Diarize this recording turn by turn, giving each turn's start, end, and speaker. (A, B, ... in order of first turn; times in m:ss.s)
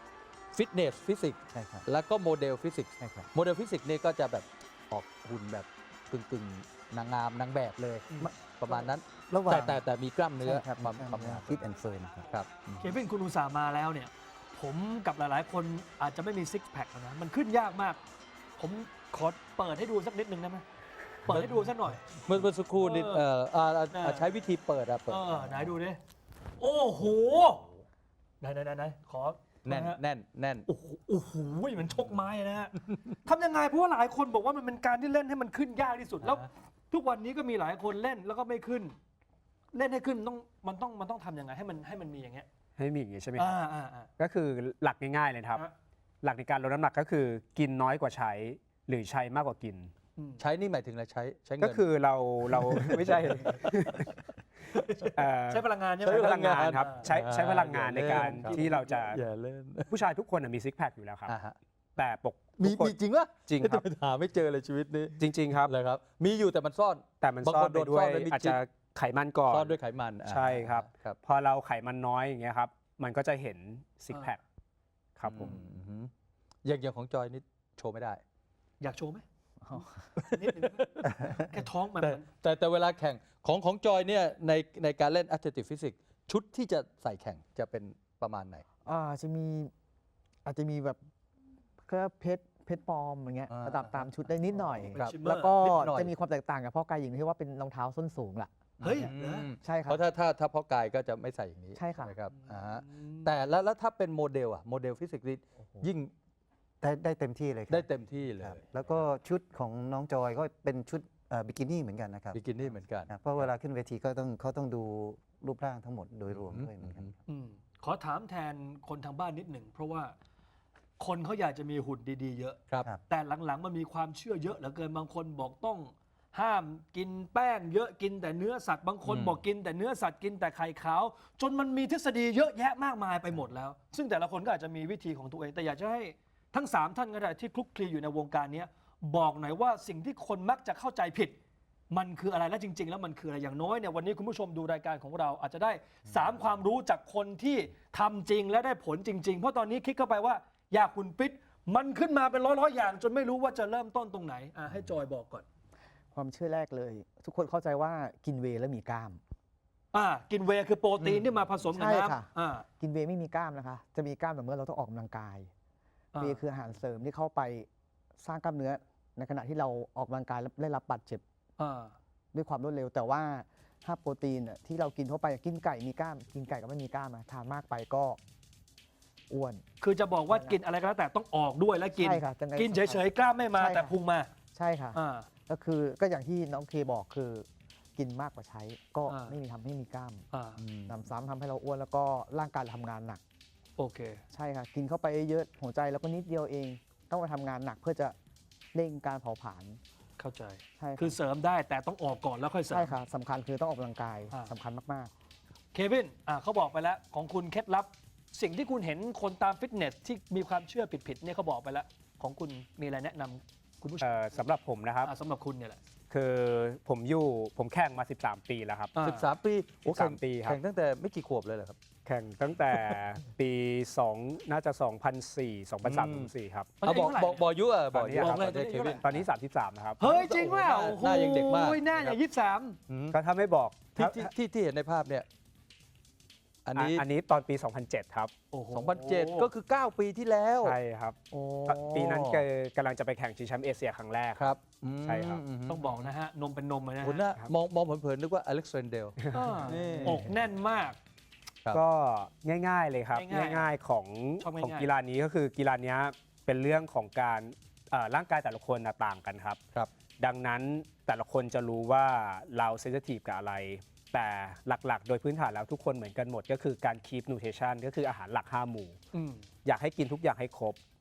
0:00.5-0:11.6 A
0:01.5-0:01.9 B
0:03.0-0:03.3 B
0:08.2-0:09.8 B
0:10.4-0:12.3 B
0:12.3-0:12.9 A
0:12.8-0:18.0 C
0:18.6-0:20.6 C
0:21.2-0:22.2 C
0:22.2-0:25.7 A
0:22.8-0:23.2 C
0:23.9-0:24.3 C
0:25.1-0:26.0 C
0:26.6-0:27.7 C
0:28.4-0:30.0 C
0:29.6-0:30.7 A
0:30.7-0:38.9 C
0:39.7-0:42.5 C
0:42.8-0:43.5 D
0:43.4-0:44.1 C
0:44.2-0:45.7 D
0:46.2-0:49.9 D
0:50.2-0:50.4 C
0:50.4-0:51.8 A
0:51.6-0:54.2 D
0:52.5-0:53.6 A
0:54.9-0:57.1 C
0:55.0-0:59.2 D
0:56.1-0:59.9 A
0:58.0-0:58.9 C
0:59.9-1:01.3 D
1:01.3-1:01.6 A
1:02.0-1:02.9 D
1:02.6-1:08.6 A
1:03.5-1:03.8 D
1:05.2-1:05.7 D
1:07.2-1:14.4 D
1:09.5-1:11.2 A
1:15.2-1:15.6 D
1:15.2-1:16.1 A
1:16.6-1:18.2 A
1:18.8-1:19.2 C
1:19.6-1:20.1 E
1:20.2-1:21.0 A
1:20.2-1:22.3 C
1:22.0-1:28.6 A
1:28.8-1:29.7 E
1:30.4-1:31.0 E
1:31.8-1:40.0 E
1:33.5-1:36.2 A
1:34.9-1:35.6 C
1:38.8-1:46.1 A
1:38.8-1:39.5 C
1:41.8-1:42.2 E
1:42.4-1:43.3 C
1:46.8-1:52.5 B
1:47.7-1:48.6 A
1:52.3-1:53.4 A
1:53.1-1:57.2 B
1:56.3-1:57.1 A
1:57.3-2:00.2 C
2:01.0-2:21.4 C
2:09.1-2:09.4 A
2:21.9-2:35.4 C
2:36.1-2:39.2 E
2:39.9-2:42.7 C
2:41.7-2:45.5 E
2:46.1-2:46.4 C
2:46.2-2:51.2 E
2:51.6-2:51.9 C
2:52.3-2:58.2 E
2:59.3-2:59.6 E
2:59.8-3:04.3 C
3:00.3-3:00.6 E
3:01.9-3:03.0 E
3:03.6-3:04.0 E
3:04.5-3:10.2 E
3:04.9-3:05.3 C
3:09.1-3:09.4 C
3:10.3-3:10.6 C
3:10.6-3:11.0 A
3:10.9-3:13.2 E
3:13.8-3:14.2 C
3:14.3-3:18.2 E
3:18.7-3:19.8 E
3:20.2-3:23.0 C
3:20.8-3:21.2 E
3:22.7-3:25.1 E
3:25.7-3:34.2 C
3:34.0-3:35.1 D
3:35.0-3:35.8 C
3:36.1-3:38.9 D
3:39.0-3:39.3 C
3:39.0-3:41.8 A
3:39.9-3:40.6 D
3:42.0-3:46.8 D
3:45.8-3:46.3 A
3:46.8-3:47.5 C
3:46.8-3:49.2 A
3:47.9-3:48.5 D
3:48.1-3:49.1 C
3:49.0-3:50.1 D
3:50.0-3:52.8 C
3:50.1-3:52.2 A
3:52.9-3:53.2 A
3:53.1-3:54.3 D
3:54.0-3:55.2 A
3:56.6-3:57.0 A
3:56.8-3:58.3 D
3:58.5-3:59.5 C
3:58.7-4:00.8 A
4:00.6-4:04.5 D
4:01.3-4:02.1 C
4:02.1-4:02.4 A
4:04.4-4:06.1 A
4:05.0-4:05.4 D
4:05.7-4:07.3 C
4:07.0-4:10.3 A
4:09.2-4:09.7 D
4:09.3-4:11.0 C
4:11.7-4:19.6 D
4:13.1-4:13.7 C
4:14.4-4:14.9 C
4:20.2-4:29.0 D
4:29.1-4:29.4 C
4:29.6-4:30.8 D